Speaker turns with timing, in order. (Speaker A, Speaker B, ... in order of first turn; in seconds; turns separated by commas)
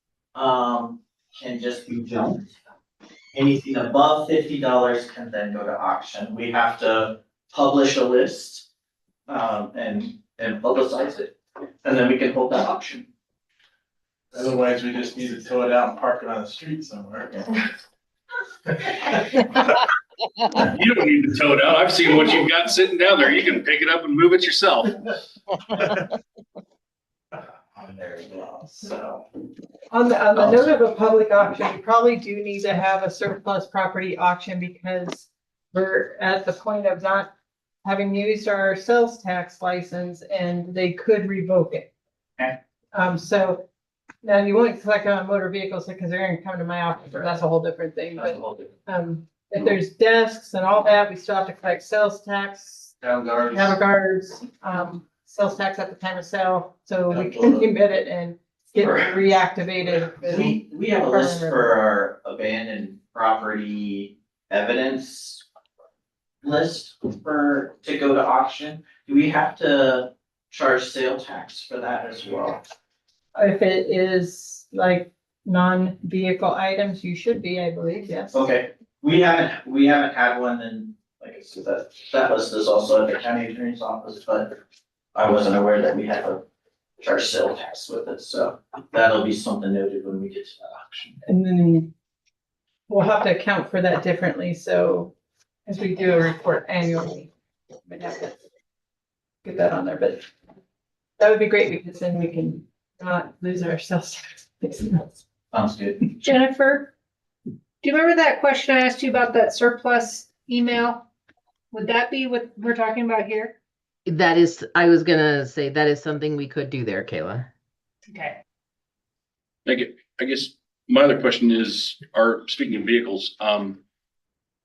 Speaker A: 0.3-2.5, Speaker A: 3.3-8.7, Speaker A: 9.3-13.1, Speaker B: 14.3-17.5, Speaker C: 20.5-25.2, Speaker A: 27.8-29.2, Speaker D: 29.9-37.3, Speaker D: 37.8-41.9, Speaker D: 42.9-43.6, Speaker D: 44.2-53.0, Speaker A: 48.2-48.7, Speaker B: 53.0-53.8, Speaker D: 53.5-61.7, Speaker A: 57.1-57.5, Speaker B: 57.1-57.6, Speaker A: 58.8-59.1, Speaker A: 60.2-65.5, Speaker A: 66.4-72.6, Speaker D: 73.3-78.4, Speaker A: 78.3-84.6, Speaker A: 85.1-86.4, Speaker A: 87.0-91.2, Speaker D: 91.2-91.9, Speaker D: 92.9-95.1, Speaker D: 95.7-97.3, Speaker D: 97.8-98.4, Speaker D: 99.4-100.2, Speaker D: 101.2-105.2, Speaker A: 105.5-106.1, Speaker E: 106.2-106.9, Speaker E: 107.8-111.1, Speaker E: 111.7-113.6, Speaker F: 114.1-117.5, Speaker E: 118.1-118.4, Speaker C: 119.7-123.8